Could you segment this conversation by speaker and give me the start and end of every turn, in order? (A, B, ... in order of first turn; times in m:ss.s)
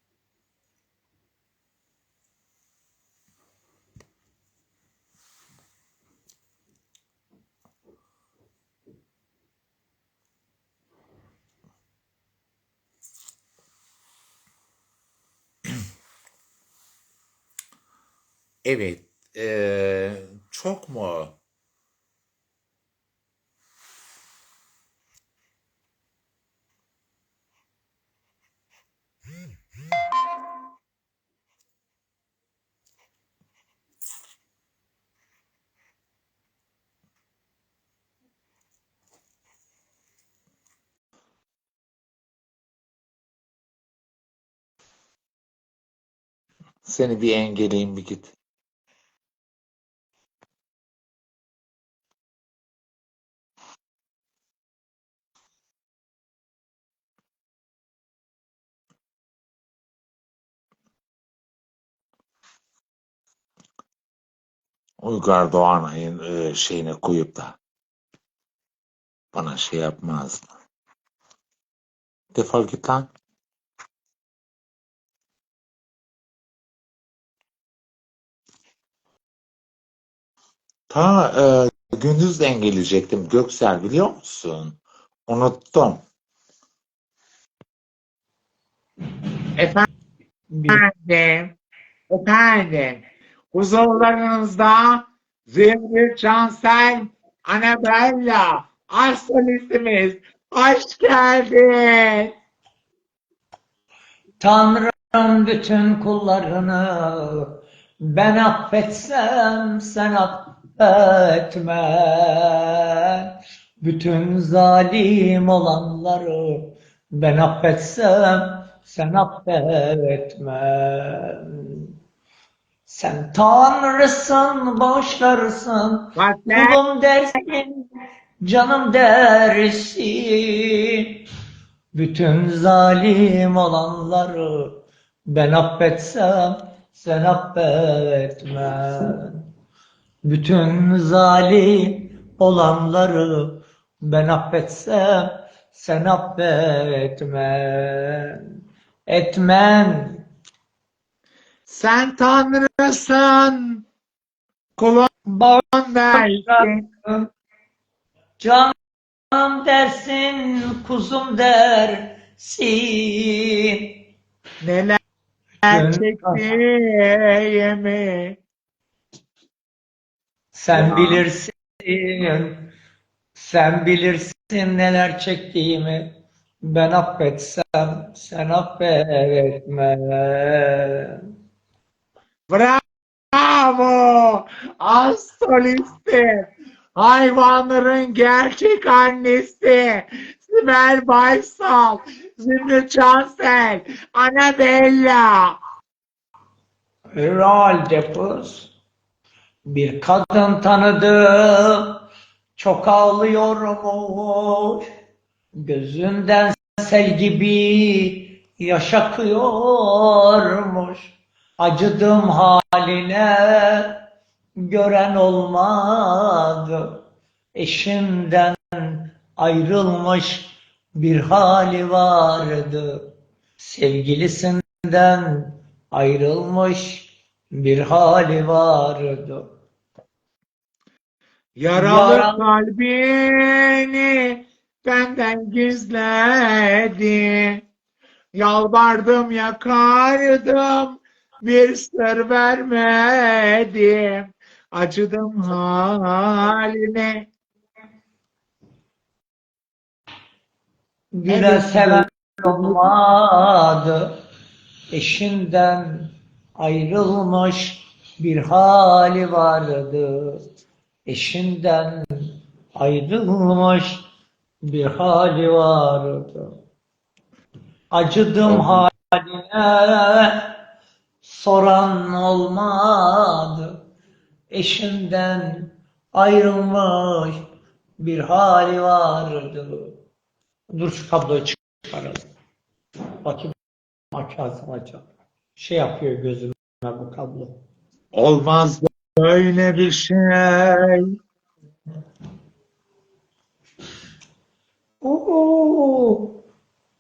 0:18.6-0:21.4 A
0:46.8-0:48.3 A
1:05.0-1:07.6 A
1:09.3-1:10.5 A
1:12.3-1:13.1 A
1:20.9-1:26.0 A
1:29.6-1:29.8 A
1:30.5-1:30.8 B
1:30.7-1:31.6 A
1:32.1-1:42.3 A
1:44.4-2:01.9 B
2:02.8-2:07.8 B
2:06.2-2:06.8 A
2:08.4-2:11.2 B
2:11.9-2:19.5 B
2:20.2-2:28.4 B
2:29.1-2:30.2 B
2:31.7-2:33.8 A
2:34.8-2:36.8 A
2:36.1-2:37.3 B
2:38.4-2:38.7 B
2:39.3-2:44.0 B
2:44.6-2:45.0 A
2:45.6-2:48.4 A
2:45.7-2:46.4 B
2:50.5-2:52.7 B
2:50.7-2:51.2 A
2:53.3-2:56.1 B
2:56.6-3:01.2 B
3:02.5-3:02.8 A
3:03.3-3:15.6 A
3:17.2-3:18.7 B
3:19.7-3:22.0 B
3:22.6-3:24.8 B
3:25.6-3:34.0 B
3:34.6-3:37.0 B
3:37.6-3:49.4 B
3:51.6-3:57.6 A
3:51.7-3:52.5 B
3:58.3-4:07.3 A
4:11.2-4:14.2 B
4:11.3-4:12.9 A
4:14.9-4:20.4 B
4:21.1-4:24.0 B
4:24.6-4:26.5 B
4:27.9-4:30.6 B
4:28.5-4:28.9 A
4:31.2-4:33.8 B
4:34.5-4:37.4 B
4:38.0-4:40.0 B
4:40.7-4:42.3 B
4:43.2-4:43.5 B
4:44.1-4:47.5 B
4:48.1-4:51.1 A
4:55.0-4:56.4 B